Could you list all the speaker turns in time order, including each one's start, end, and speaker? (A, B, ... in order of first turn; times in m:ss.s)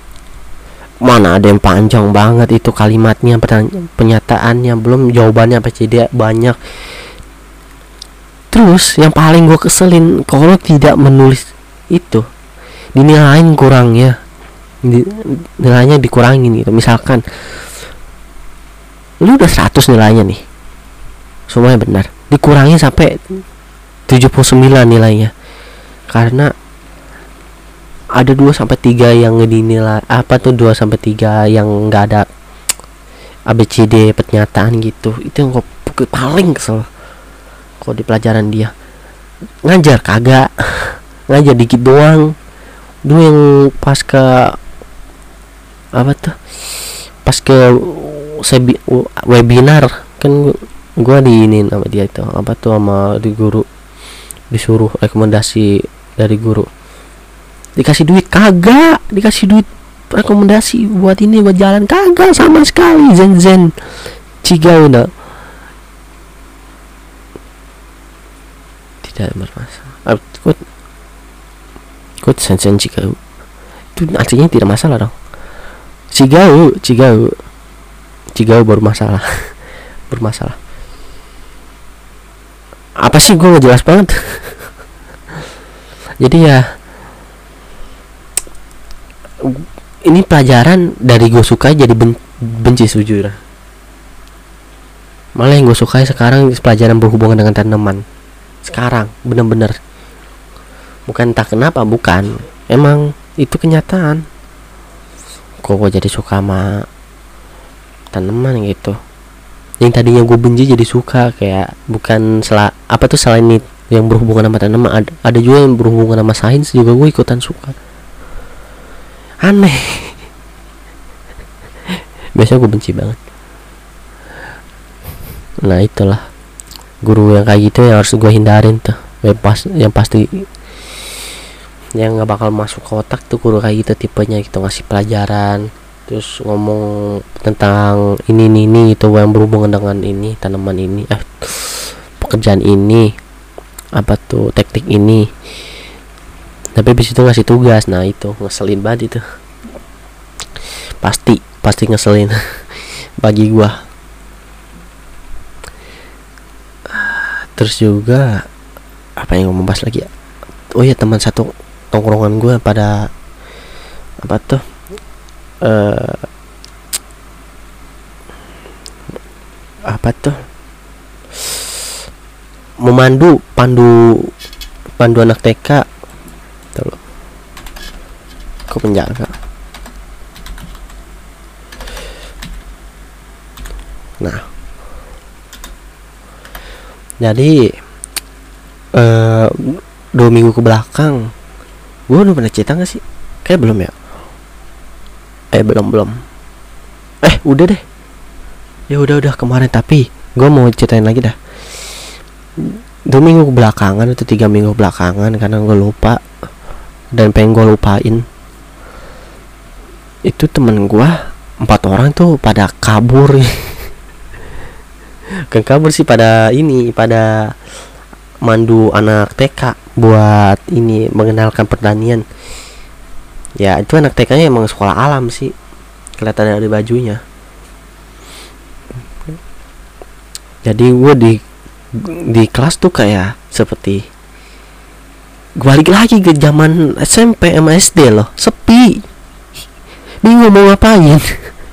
0:01.0-0:06.6 A
0:08.5-0:12.2 A
0:13.0-0:14.2 A
0:14.9-0:17.2 A
0:19.2-0:20.4 A
0:21.5-0:23.2 A
0:24.1-0:25.3 A
0:26.1-0:26.5 A
0:28.2-0:32.3 A
0:33.5-0:36.9 A
0:37.8-0:38.7 A
0:39.7-0:42.3 A
0:43.1-0:44.6 A
0:46.0-0:46.4 A
0:47.2-0:53.6 A
0:54.5-0:56.7 A
0:57.8-1:03.7 A
1:04.4-1:05.1 A
1:09.0-1:10.6 A
1:12.2-1:13.2 A
1:14.0-1:15.1 A
1:16.1-1:17.3 A
1:18.4-1:19.2 A
1:20.1-1:20.6 A
1:23.0-1:24.6 A
1:26.2-1:26.6 A
1:29.4-1:33.4 A
1:35.4-1:38.0 A
1:38.7-1:39.8 A
1:41.1-1:44.2 A
1:45.6-1:46.9 A
1:48.1-1:49.0 A
1:49.8-1:57.8 A
1:59.4-2:00.2 A
2:02.4-2:03.2 A
2:05.6-2:06.2 A
2:07.0-2:10.4 A
2:12.0-2:16.9 A
2:17.4-2:23.1 A
2:24.0-2:25.3 A
2:26.8-2:29.2 A
2:31.0-2:32.4 A
2:33.2-2:33.8 A
2:36.9-2:38.4 A
2:39.2-2:40.1 A
2:40.8-2:43.0 A
2:44.2-2:44.6 A
2:45.6-2:46.3 A
2:49.9-2:50.4 A
2:52.8-2:54.3 A
2:55.0-2:55.8 A
2:58.7-2:59.3 A
3:07.2-3:07.6 A
3:09.0-3:11.3 A
3:12.1-3:13.9 A
3:15.5-3:16.2 A
3:17.2-3:17.8 A
3:18.9-3:21.4 A
3:22.7-3:26.2 A
3:27.2-3:28.2 A
3:30.3-3:33.8 A
3:35.5-3:37.3 A
3:38.4-3:42.2 A
3:43.6-3:45.5 A
3:46.2-3:47.2 A
3:50.6-3:51.4 A
3:52.0-3:54.0 A
3:55.6-3:59.0 A
4:00.2-4:01.4 A